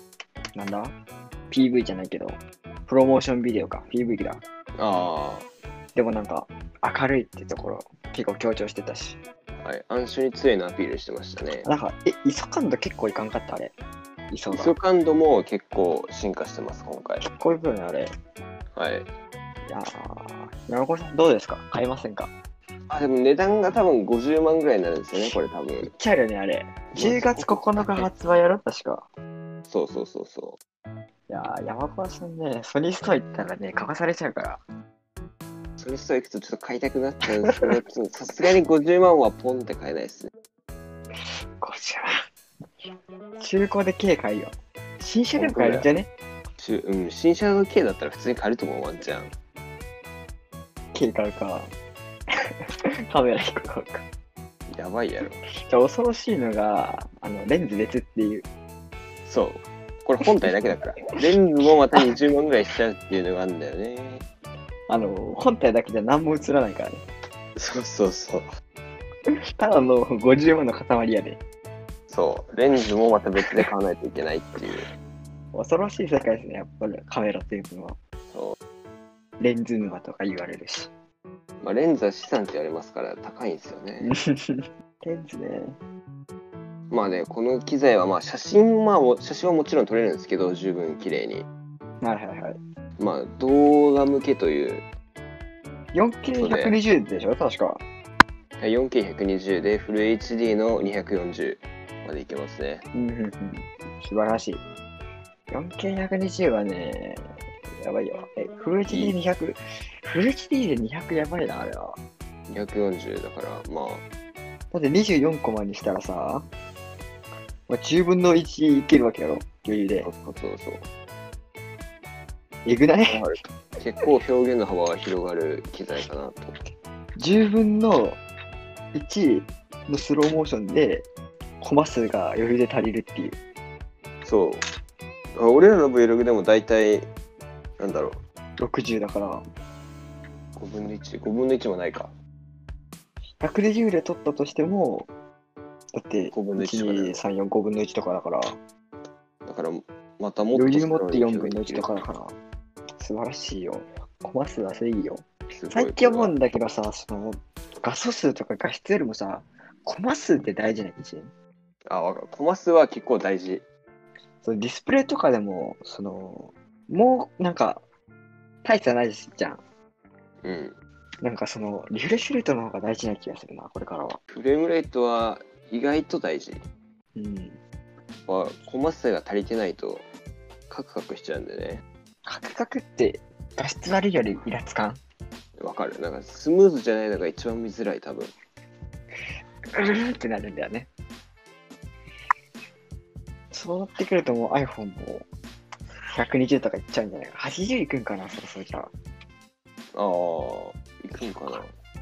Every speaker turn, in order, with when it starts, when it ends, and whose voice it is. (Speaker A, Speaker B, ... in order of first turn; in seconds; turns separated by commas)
Speaker A: 0.5-0.9, Speaker A: 1.5-4.4, Speaker B: 4.8-5.5, Speaker A: 5.9-9.2, Speaker B: 9.6-11.7, Speaker A: 11.6-13.7, Speaker A: 14.3-14.7, Speaker B: 14.5-17.2, Speaker A: 17.2-18.1, Speaker B: 18.7-19.1, Speaker A: 19.7-22.3, Speaker B: 22.9-25.9, Speaker A: 25.1-29.1, Speaker B: 26.9-28.1, Speaker B: 29.7-30.6, Speaker A: 31.3-34.6, Speaker B: 35.8-40.3, Speaker A: 41.3-42.2, Speaker A: 43.4-46.1, Speaker B: 45.4-45.9, Speaker B: 46.6-49.3, Speaker A: 50.9-51.7, Speaker A: 53.1-54.1, Speaker B: 54.7-55.4, Speaker A: 55.7-58.5, Speaker B: 59.2-64.2, Speaker A: 64.9-67.0, Speaker B: 67.5-68.5, Speaker A: 69.3-71.4, Speaker B: 72.1-74.9, Speaker A: 75.5-78.0, Speaker B: 78.3-78.6, Speaker A: 79.4-80.9, Speaker B: 81.6-84.1, Speaker A: 84.0-85.8, Speaker B: 86.9-91.5, Speaker A: 92.0-92.6, Speaker B: 93.0-94.9, Speaker A: 95.9-97.8, Speaker B: 96.3-96.7, Speaker B: 98.6-102.8, Speaker A: 102.9-104.6, Speaker A: 105.5-107.3, Speaker A: 107.8-112.0, Speaker B: 108.9-109.2, Speaker B: 112.5-114.0, Speaker A: 114.7-116.5, Speaker A: 117.7-120.1, Speaker B: 120.0-120.8, Speaker A: 122.6-123.2, Speaker B: 123.1-126.6, Speaker A: 127.2-128.2, Speaker A: 128.9-131.1, Speaker A: 131.6-133.4, Speaker B: 134.2-134.6, Speaker B: 135.3-137.1, Speaker B: 137.8-138.2, Speaker A: 138.6-139.4, Speaker B: 140.6-142.1, Speaker A: 143.4-145.1, Speaker A: 145.9-148.6, Speaker B: 146.3-147.2, Speaker B: 149.4-151.9, Speaker A: 150.5-152.3, Speaker A: 153.0-161.3, Speaker B: 155.5-156.3, Speaker B: 161.9-163.6, Speaker A: 164.4-167.8, Speaker A: 168.6-169.6, Speaker B: 170.4-170.8, Speaker A: 171.2-174.2, Speaker B: 174.3-176.6, Speaker A: 177.2-177.6, Speaker B: 178.3-180.1, Speaker B: 180.7-181.8, Speaker A: 182.2-185.0, Speaker B: 185.6-188.3, Speaker A: 189.7-190.9, Speaker A: 193.5-195.3, Speaker A: 196.1-198.9, Speaker B: 199.9-201.7